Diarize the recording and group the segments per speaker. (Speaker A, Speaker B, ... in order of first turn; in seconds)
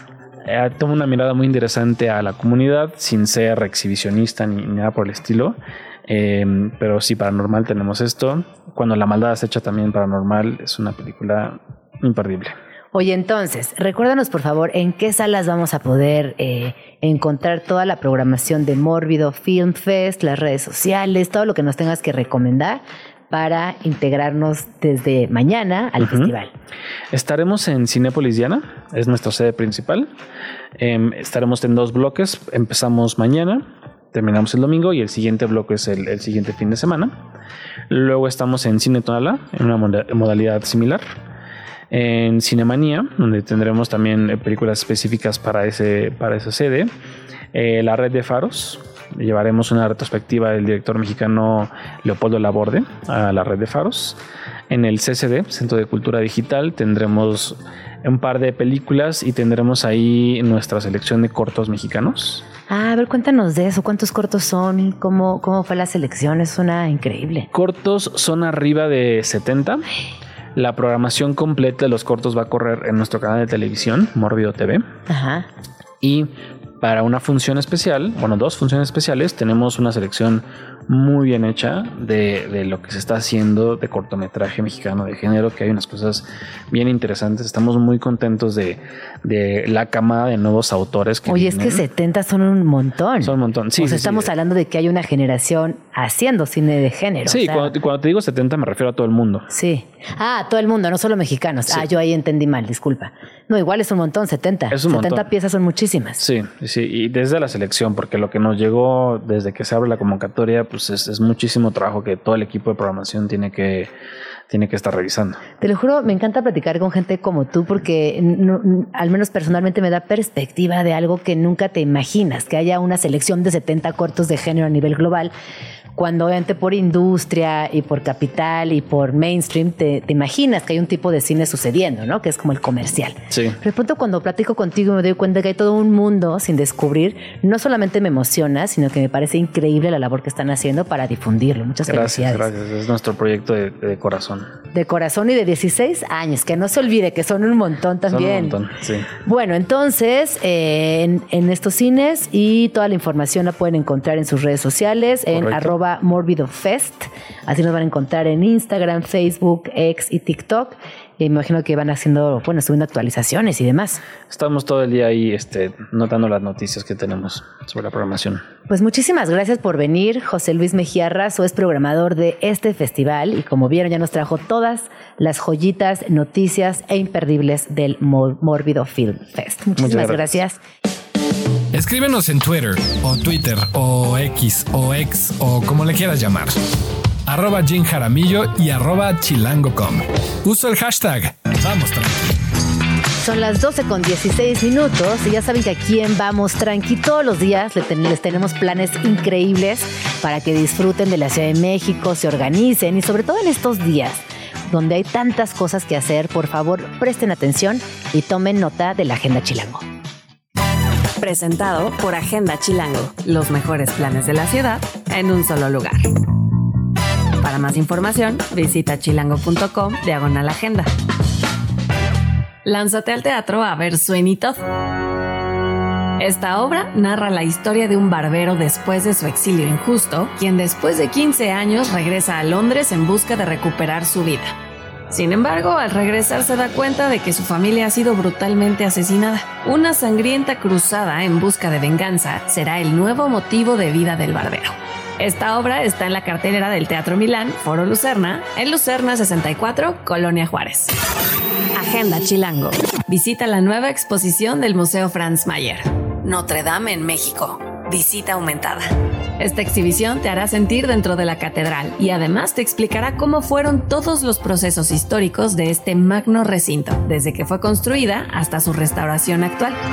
Speaker A: 0.5-12.6, 26.0-26.3, 27.1-30.1, 30.8-37.2, 37.9-41.0, 41.9-46.9, 47.5-54.2, 54.7-62.4, 67.5-69.8, 70.5-74.8, 76.0-91.8, 93.2-94.3, 97.3-99.5, 104.7-105.3, 106.2-113.9, 114.5-115.4, 133.3-133.6, 141.8-144.5, 148.1-149.1, 155.3-155.7, 164.3-168.4, 179.8-180.3
Speaker B: 12.9-26.5, 62.7-67.5, 75.1-75.5, 91.3-97.7, 99.5-106.2, 115.6-125.3, 126.0-142.5, 144.7-148.5, 149.2-164.0, 168.7-180.6, 193.2-209.8
Speaker C: 181.7-186.6, 187.3-192.4
Speaker D: 211.2-216.1, 217.4-220.9, 222.6-224.6, 226.2-234.5, 235.1-250.9, 251.7-258.9, 259.4-269.8